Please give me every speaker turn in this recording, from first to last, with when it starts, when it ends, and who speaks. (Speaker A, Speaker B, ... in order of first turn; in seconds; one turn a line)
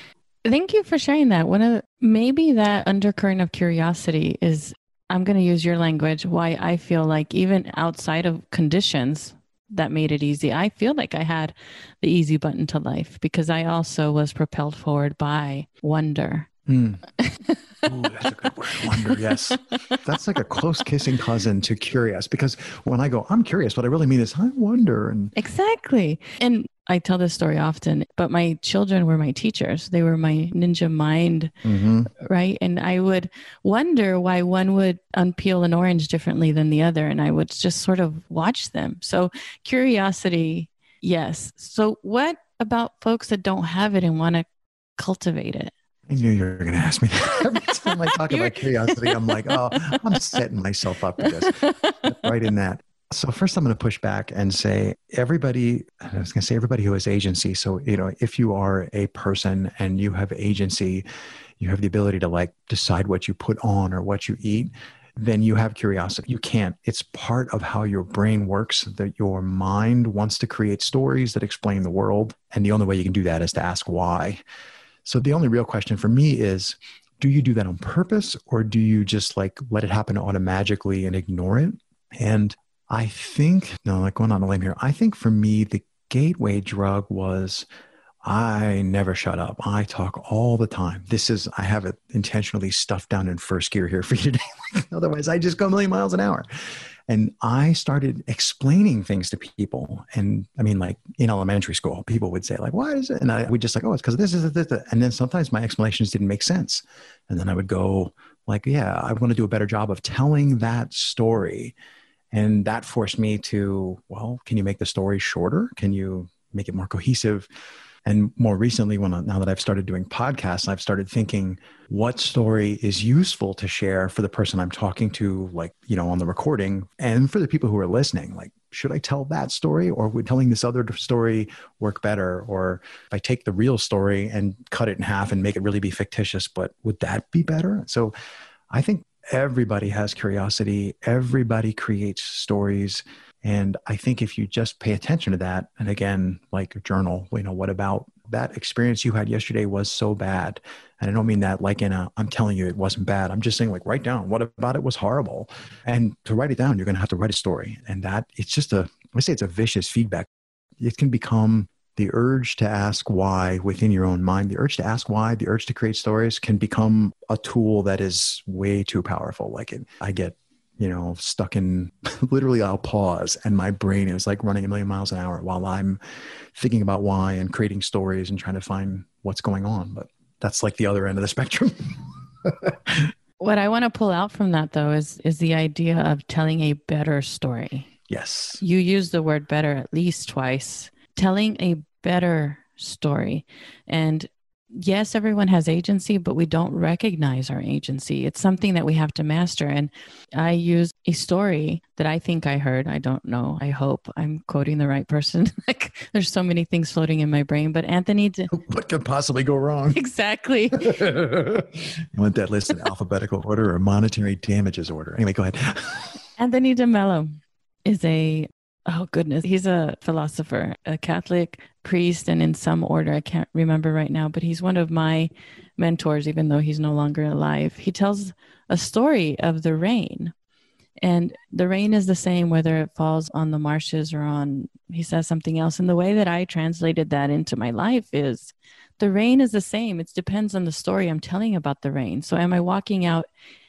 Speaker A: 0.5-16.5
Speaker B: 16.7-17.0
Speaker A: 17.2-17.6
Speaker B: 17.9-25.3
Speaker A: 18.2-20.0
Speaker A: 25.4-31.5
Speaker B: 31.6-32.1
Speaker A: 32.1-44.5
Speaker A: 45.0-45.7
Speaker B: 46.1-61.0
Speaker A: 47.8-50.0
Speaker A: 51.2-52.3
Speaker B: 61.6-74.4
Speaker B: 75.0-87.7
Speaker B: 88.2-96.5
Speaker B: 97.1-111.8
Speaker B: 112.3-117.5
Speaker B: 118.1-138.1
Speaker B: 138.7-160.3
Speaker B: 160.8-176.0
Speaker B: 176.6-183.1
Speaker A: 183.4-187.9
Speaker B: 188.1-188.6
Speaker A: 188.6-208.5
Speaker B: 208.5-210.0
Speaker A: 209.9-210.9
Speaker B: 210.7-216.2
Speaker A: 216.4-230.3
Speaker A: 231.0-243.3